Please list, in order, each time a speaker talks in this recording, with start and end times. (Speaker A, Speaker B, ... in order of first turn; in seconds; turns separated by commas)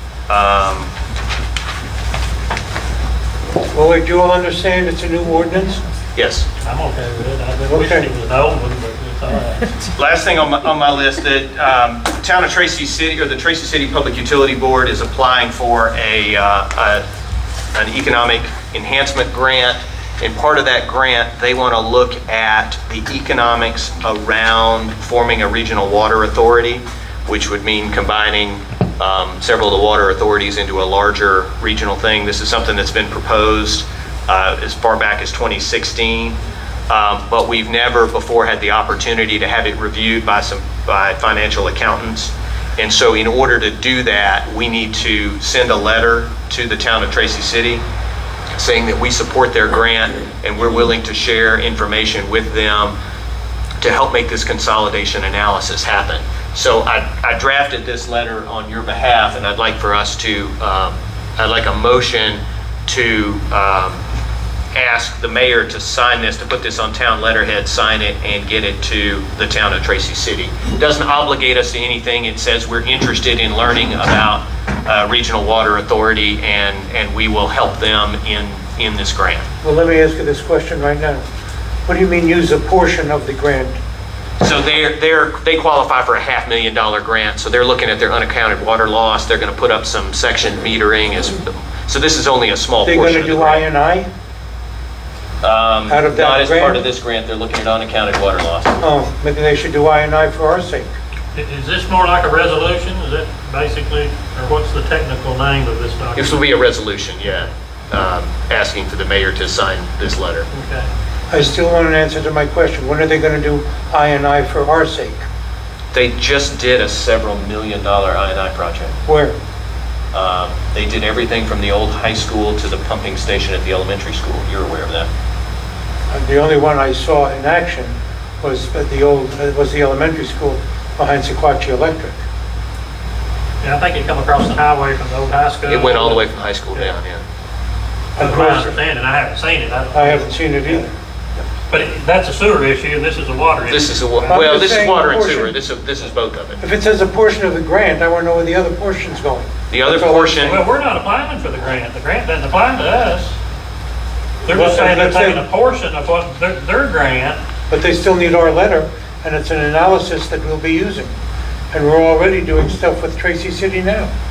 Speaker A: 0.3-0.9, Speaker B: 3.7-5.8, Speaker A: 6.2-6.5, Speaker C: 6.6-9.7, Speaker B: 7.7-8.1, Speaker A: 9.9-17.0, Speaker A: 17.7-36.4, Speaker A: 36.9-47.8, Speaker A: 48.5-53.0, Speaker A: 53.8-64.0, Speaker A: 64.8-79.5, Speaker B: 79.6-81.2, Speaker B: 81.9-83.7, Speaker A: 84.4-93.6, Speaker B: 92.8-94.1, Speaker A: 95.4-98.8, Speaker B: 95.9-96.8, Speaker B: 98.8-100.9, Speaker C: 101.3-106.5, Speaker A: 106.2-110.5, Speaker C: 110.5-110.9, Speaker B: 111.3-115.2, Speaker A: 115.9-119.0, Speaker B: 119.1-119.3, Speaker A: 120.1-125.1, Speaker B: 126.1-132.2, Speaker C: 133.6-136.9, Speaker A: 135.7-137.2, Speaker B: 138.2-138.8, Speaker C: 138.2-140.8, Speaker B: 139.9-140.9, Speaker C: 141.7-144.5, Speaker A: 143.7-146.6, Speaker B: 144.3-145.6, Speaker B: 146.6-150.6, Speaker A: 149.7-150.6, Speaker C: 150.4-153.4, Speaker C: 154.5-157.4, Speaker B: 154.5-155.4, Speaker B: 157.7-161.1, Speaker B: 161.7-164.1